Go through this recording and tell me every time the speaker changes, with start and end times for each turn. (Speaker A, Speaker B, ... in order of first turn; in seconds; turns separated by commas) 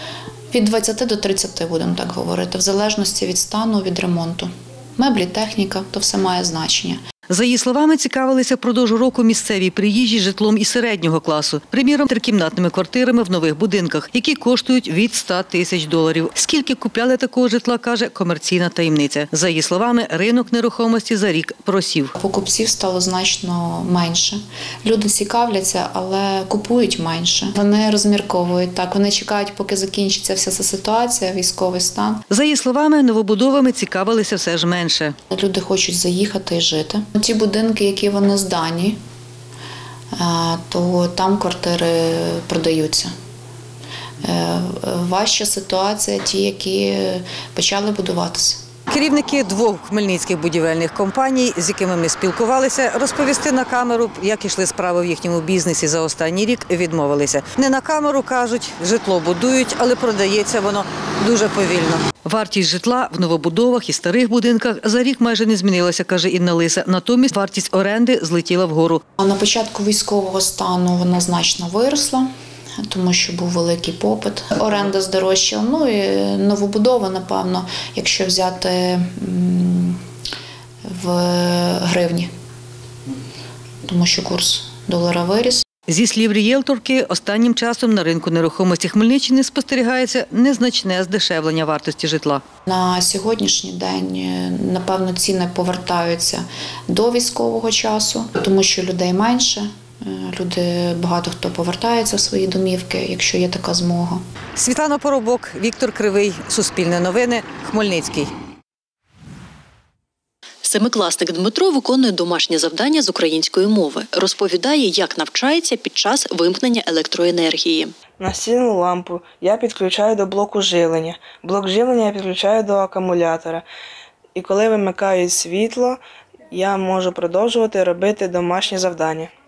Speaker A: 0.5-7.0, Speaker B: 7.3-22.1, Speaker A: 22.2-32.2, Speaker B: 32.3-35.1, Speaker A: 35.3-39.0, Speaker A: 40.2-43.1, Speaker A: 44.2-48.6, Speaker B: 48.9-69.0, Speaker A: 69.2-72.3, Speaker A: 72.9-80.0, Speaker A: 80.9-82.3, Speaker A: 83.9-85.6, Speaker B: 85.9-92.4, Speaker A: 92.7-104.2, Speaker B: 104.6-108.3, Speaker C: 110.6-118.0, Speaker D: 118.2-123.7, Speaker D: 124.3-129.3